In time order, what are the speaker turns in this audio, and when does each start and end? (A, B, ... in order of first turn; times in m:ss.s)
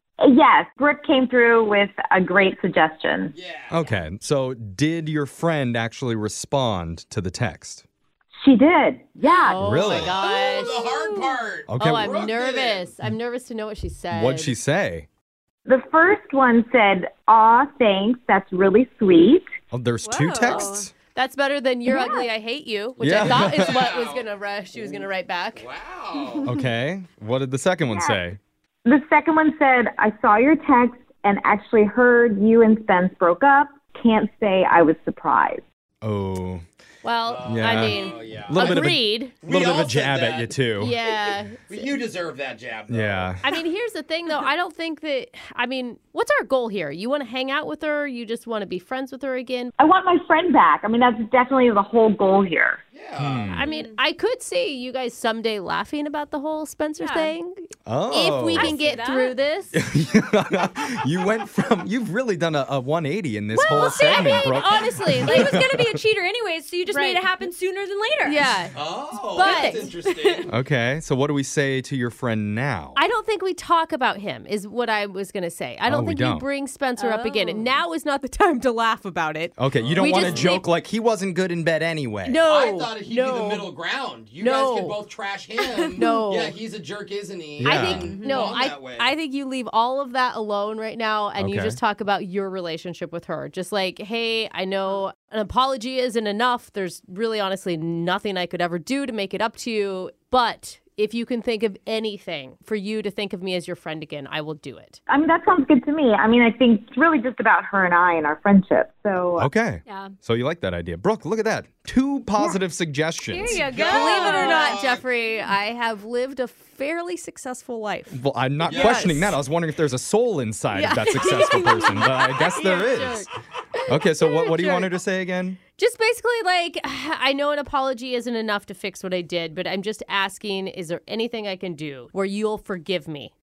0:00.2-0:03.3 A
0:03.3-0:03.8 B
0:03.7-0:07.8 C
0:08.4-0:09.9 A
0:09.2-0:09.5 D
0:09.3-0:10.8 E
0:09.5-0:10.2 C
0:09.8-0:12.9 B
0:10.6-0:11.3 D
0:11.7-0:12.1 C
0:11.8-0:14.5 E
0:14.1-0:15.1 C
0:15.6-0:19.4 A
0:19.7-0:20.9 C
0:20.0-0:20.9 D
0:20.5-0:25.6 E
0:23.0-0:23.8 C
0:23.0-0:26.5 B
0:26.4-0:28.4 C
0:27.9-0:28.2 A
0:28.8-0:35.6 A
0:36.0-0:36.6 C
0:37.0-0:39.4 E
0:37.2-0:38.9 B
0:37.4-0:40.9 C
0:39.4-0:43.4 B
0:40.8-0:41.9 E
0:42.9-0:43.4 C
0:43.4-0:49.7 E
0:49.8-0:52.8 A
0:52.9-0:53.6 B
0:53.2-0:53.6 C
0:53.5-0:59.8 E
0:53.6-0:54.0 D
0:57.0-0:57.3 D
0:57.9-0:58.8 C
0:58.5-0:59.4 D
0:59.7-1:06.0 C
1:03.6-1:05.5 E
1:03.6-1:08.6 D
1:06.9-1:07.3 E
1:08.2-1:09.9 E
1:08.7-1:10.5 B
1:09.4-1:10.4 D
1:10.4-1:13.0 C
1:12.9-1:20.7 E
1:15.9-1:16.5 C
1:17.0-1:17.7 D
1:19.6-1:22.4 C
1:19.8-1:20.6 B
1:22.2-1:23.8 E
1:22.4-1:29.2 B
1:24.4-1:25.0 E
1:25.9-1:26.6 E
1:27.6-1:28.2 C
1:27.6-1:45.0 E
1:27.9-1:28.5 D
1:31.4-1:31.8 C
1:45.1-1:49.5 A
1:49.4-1:53.7 C
1:49.9-1:50.1 D
1:53.3-1:54.7 D
1:53.5-1:55.0 B
1:53.8-1:59.4 E
1:58.1-2:03.3 C
1:58.6-1:59.3 B
2:00.7-2:03.3 E
2:01.3-2:02.6 D
2:03.9-2:05.6 C
2:03.9-2:04.9 E
2:05.8-2:13.3 E